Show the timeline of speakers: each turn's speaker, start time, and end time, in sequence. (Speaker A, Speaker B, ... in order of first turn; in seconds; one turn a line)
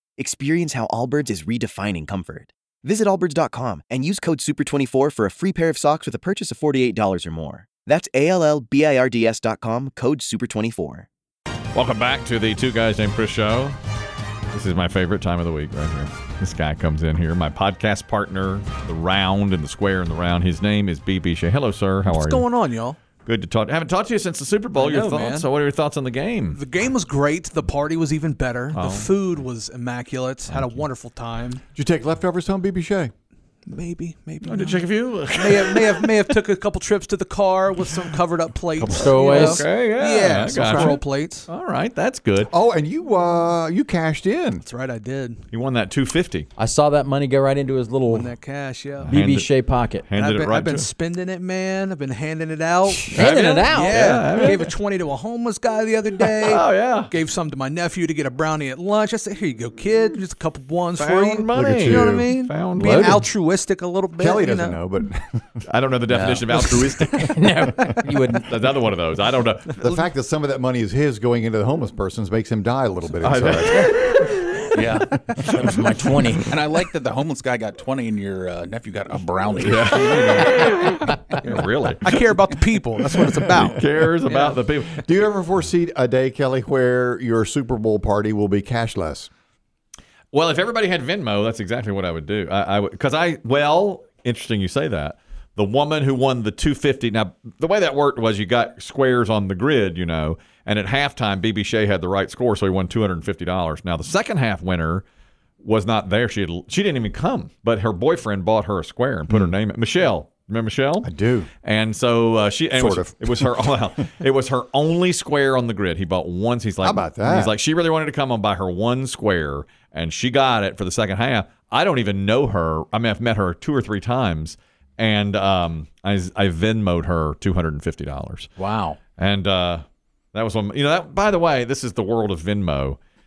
Speaker A: 0.2-11.1
Speaker B: 11.7-13.8
Speaker B: 14.5-22.5
Speaker C: 22.1-23.0
Speaker B: 23.2-26.6
Speaker C: 24.7-25.5
Speaker C: 26.5-31.6
Speaker B: 28.7-29.1
Speaker B: 30.5-30.8
Speaker D: 31.7-33.1
Speaker C: 33.7-41.5
Speaker B: 34.4-36.3
Speaker B: 38.8-42.5
Speaker E: 38.9-39.7
Speaker D: 40.5-41.0
Speaker D: 42.5-44.6
Speaker C: 44.6-45.5
Speaker B: 45.5-46.5
Speaker E: 46.6-48.3
Speaker C: 48.1-49.1
Speaker B: 49.0-49.5
Speaker E: 49.0-50.1
Speaker B: 50.0-50.9
Speaker C: 50.1-64.8
Speaker B: 53.1-54.7
Speaker E: 53.1-54.4
Speaker B: 56.4-57.1
Speaker B: 60.9-63.2
Speaker D: 61.5-62.3
Speaker E: 62.8-63.2
Speaker D: 64.2-65.6
Speaker B: 65.7-67.4
Speaker F: 66.1-66.7
Speaker E: 67.0-68.6
Speaker B: 68.5-70.0
Speaker D: 69.8-73.9
Speaker B: 73.2-74.6
Speaker F: 74.7-75.2
Speaker E: 75.5-76.5
Speaker F: 76.4-81.4
Speaker B: 79.6-82.2
Speaker C: 81.4-84.7
Speaker B: 83.5-85.1
Speaker D: 85.0-89.3
Speaker B: 90.3-105.0
Speaker B: 105.6-111.1
Speaker D: 109.3-109.5
Speaker D: 111.0-111.5
Speaker B: 111.6-128.5
Speaker D: 112.7-113.6
Speaker D: 116.8-117.5
Speaker E: 128.6-129.0
Speaker B: 129.2-133.0